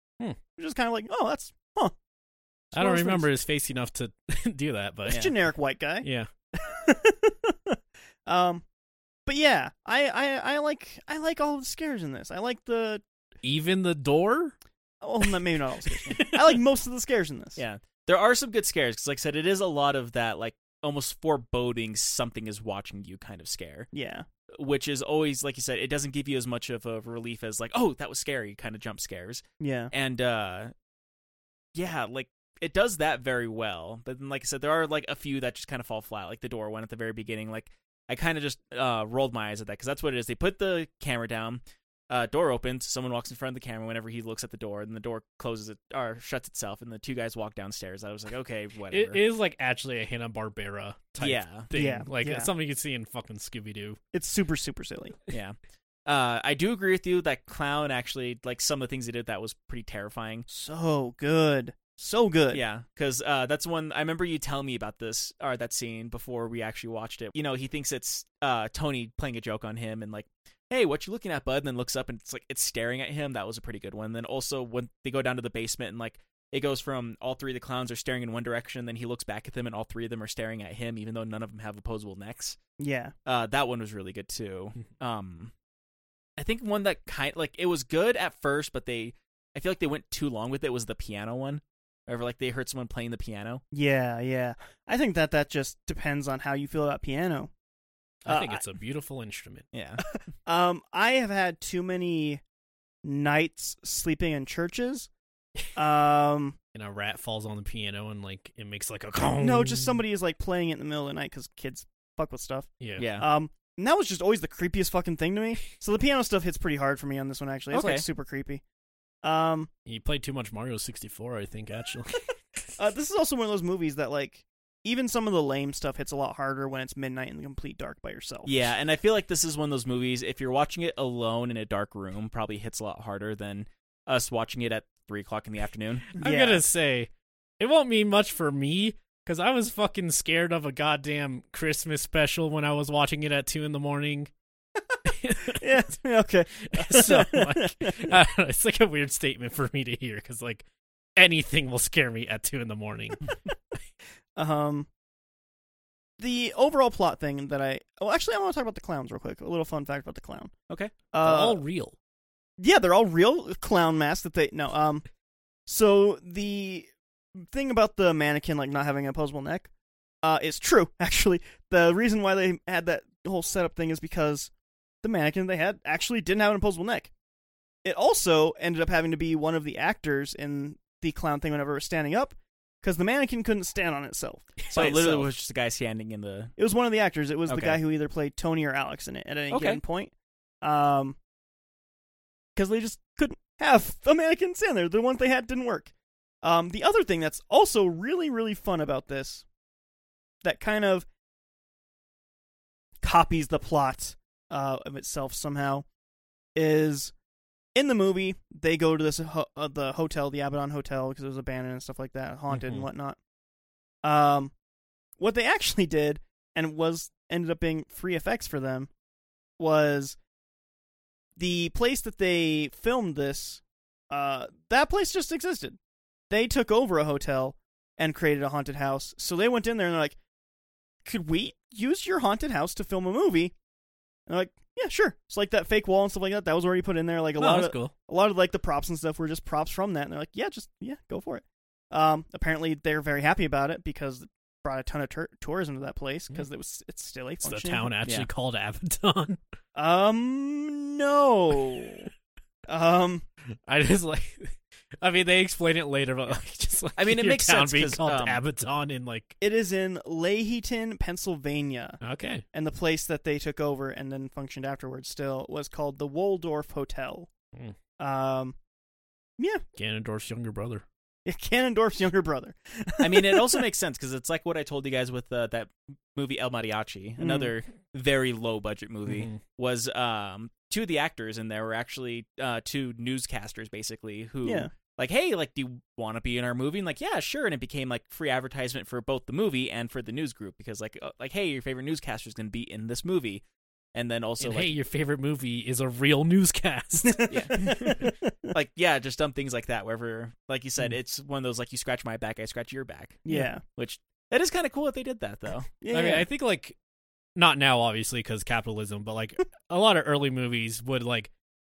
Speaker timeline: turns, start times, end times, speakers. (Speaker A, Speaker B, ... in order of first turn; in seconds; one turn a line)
Speaker A: 0.6-1.9
Speaker A: 2.7-3.3
Speaker B: 2.7-5.3
Speaker A: 5.1-8.6
Speaker B: 6.0-6.3
Speaker A: 9.3-13.0
Speaker B: 13.4-14.6
Speaker A: 15.0-17.6
Speaker B: 15.9-16.6
Speaker C: 17.6-23.9
Speaker A: 23.9-24.3
Speaker C: 24.5-30.7
Speaker A: 29.6-29.9
Speaker C: 31.8-49.2
Speaker B: 48.9-54.0
Speaker C: 51.2-51.7
Speaker A: 51.7-52.5
Speaker A: 54.1-55.2
Speaker C: 55.3-60.5
Speaker A: 60.5-62.6
Speaker C: 62.5-82.6
Speaker A: 82.8-83.1
Speaker C: 83.3-85.5
Speaker C: 86.4-93.6
Speaker A: 93.7-97.5
Speaker B: 98.2-99.7
Speaker A: 98.3-98.7
Speaker C: 99.7-100.0
Speaker A: 100.1-102.4
Speaker A: 103.0-105.1
Speaker A: 105.8-106.6
Speaker B: 106.7-110.0
Speaker A: 109.4-118.6
Speaker B: 112.8-113.1
Speaker C: 113.0-113.3
Speaker C: 117.7-118.0
Speaker A: 119.2-119.7
Speaker B: 119.9-122.6
Speaker A: 122.8-128.7
Speaker C: 128.5-136.1
Speaker B: 136.2-144.3
Speaker A: 136.2-136.6
Speaker B: 145.1-145.9
Speaker A: 145.4-148.1
Speaker B: 146.6-153.2
Speaker A: 154.4-154.9
Speaker A: 156.2-160.5
Speaker A: 161.1-161.6
Speaker B: 161.2-162.0
Speaker A: 162.6-165.1
Speaker A: 165.7-169.7
Speaker A: 170.2-174.5
Speaker A: 175.0-177.1
Speaker A: 177.8-185.3
Speaker C: 184.7-186.5
Speaker A: 186.6-191.2
Speaker C: 187.5-187.8
Speaker C: 189.5-189.8
Speaker A: 192.6-199.4
Speaker A: 200.4-201.1
Speaker A: 203.0-205.9
Speaker A: 206.6-207.1
Speaker A: 207.8-213.2
Speaker B: 212.5-212.9
Speaker A: 214.0-214.5
Speaker A: 215.2-218.9
Speaker A: 219.6-220.2
Speaker A: 221.4-225.8
Speaker A: 226.3-230.2
Speaker A: 231.1-233.5
Speaker A: 234.3-247.9
Speaker B: 237.4-237.9
Speaker B: 247.4-249.4
Speaker C: 248.0-248.3
Speaker A: 249.8-252.1
Speaker A: 252.7-253.3
Speaker B: 253.7-259.4
Speaker C: 257.0-258.4
Speaker A: 259.4-262.0
Speaker B: 262.0-262.4
Speaker A: 262.5-267.3
Speaker A: 268.0-268.6
Speaker B: 269.8-270.9
Speaker A: 271.3-273.6
Speaker C: 273.0-293.4
Speaker A: 277.2-277.5
Speaker B: 279.1-279.4
Speaker A: 284.4-284.7
Speaker C: 293.9-294.7
Speaker B: 294.4-298.1
Speaker A: 297.0-298.5
Speaker C: 297.3-305.7
Speaker A: 303.2-303.6
Speaker A: 305.8-306.3
Speaker B: 305.9-306.8
Speaker B: 307.4-311.3